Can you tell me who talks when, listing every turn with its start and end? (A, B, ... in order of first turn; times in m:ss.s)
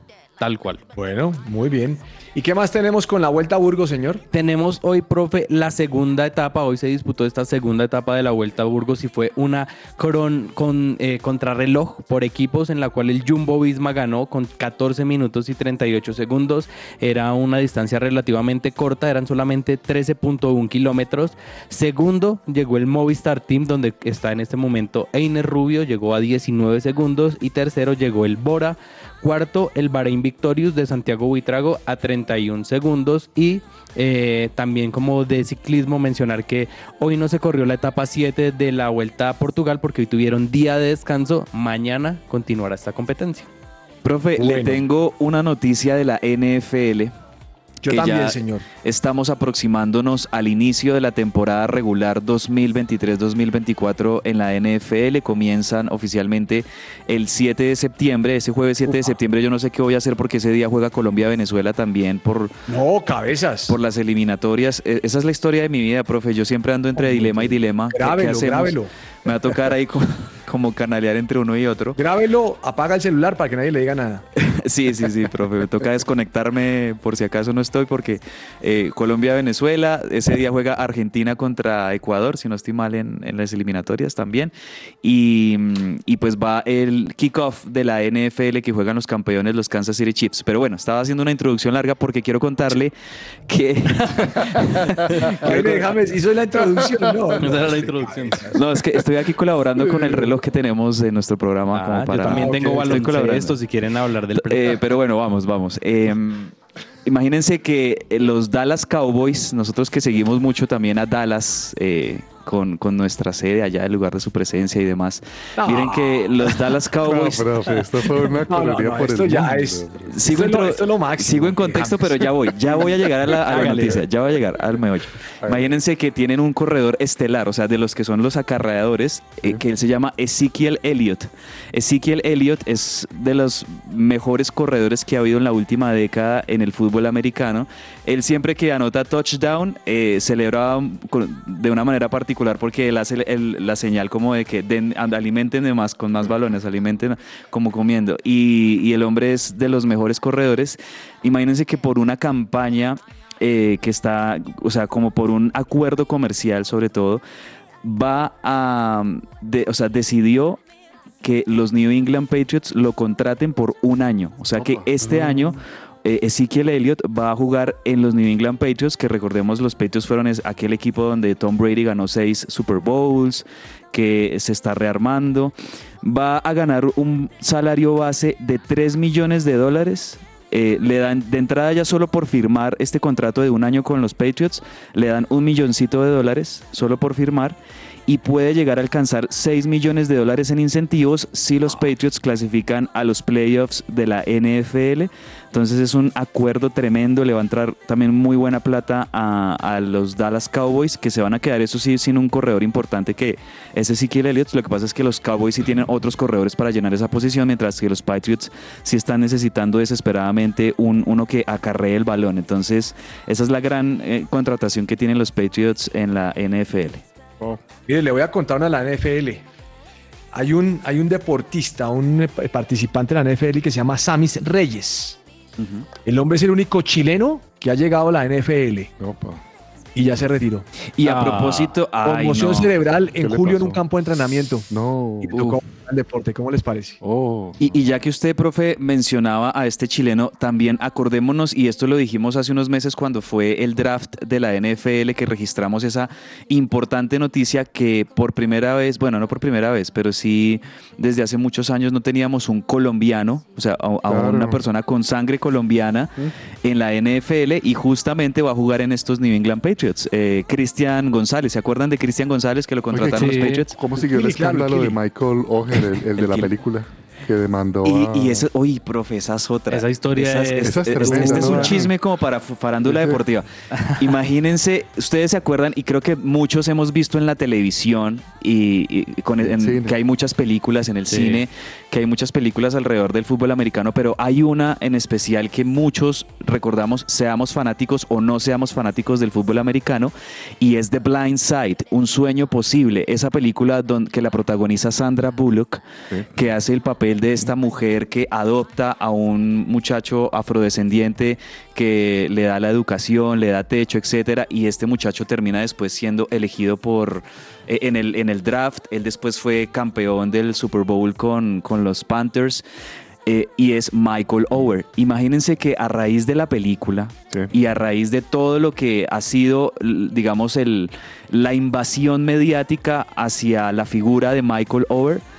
0:00.4-0:00.8 A
0:01.0-0:04.2 B
0:04.3-0:43.5 A
0:44.0-0:47.1 C
0:44.4-0:44.8 B
0:47.8-0:48.6 B
0:47.9-1:02.5 C
0:58.9-0:59.2 B
1:02.7-1:03.8 B
1:03.7-1:12.0 C
1:07.0-1:08.9 B
1:12.0-1:14.2 B
1:14.4-1:24.5 C
1:25.0-1:32.9 C
1:33.5-1:35.9 C
1:34.8-1:35.9 D
1:35.4-1:38.6 B
1:36.7-1:37.4 D
1:37.4-1:38.5 A
1:38.6-1:43.6 C
1:39.8-1:40.4 D
1:41.7-1:44.8 A
1:42.2-1:43.1 B
1:44.4-1:46.5 C
1:47.0-1:57.5 C
1:55.6-1:56.6 B
1:57.0-2:00.2 D
1:58.3-2:04.1 B
2:00.1-2:37.2 C
2:05.4-2:05.7 D
2:37.8-2:40.6 C
2:41.2-3:37.0 C
2:44.6-2:44.9 D
2:45.0-2:45.6 A
3:37.9-3:39.4 B
3:40.3-3:45.2 B
3:45.6-3:45.9 C
3:46.0-3:48.9 B
3:49.0-3:49.4 D
3:50.0-3:50.7 B
3:51.0-3:52.7 C
3:51.0-3:51.7 A
3:52.0-3:54.7 B
3:53.2-3:53.8 D
3:54.7-3:55.4 D
3:55.2-3:57.0 B
3:57.0-3:57.8 D
3:57.6-4:16.1 C
4:14.1-4:14.6 D
4:16.6-4:23.8 C
4:22.9-4:28.5 D
4:23.2-4:23.6 A
4:24.0-4:25.0 B
4:26.2-4:26.5 C
4:27.8-4:55.8 C
4:29.7-4:31.8 A
4:30.6-4:31.9 D
4:32.8-4:33.2 D
4:33.7-4:34.0 A
4:39.4-4:40.0 D
4:41.1-4:41.4 A
4:56.3-5:12.6 C
5:13.3-5:25.2 C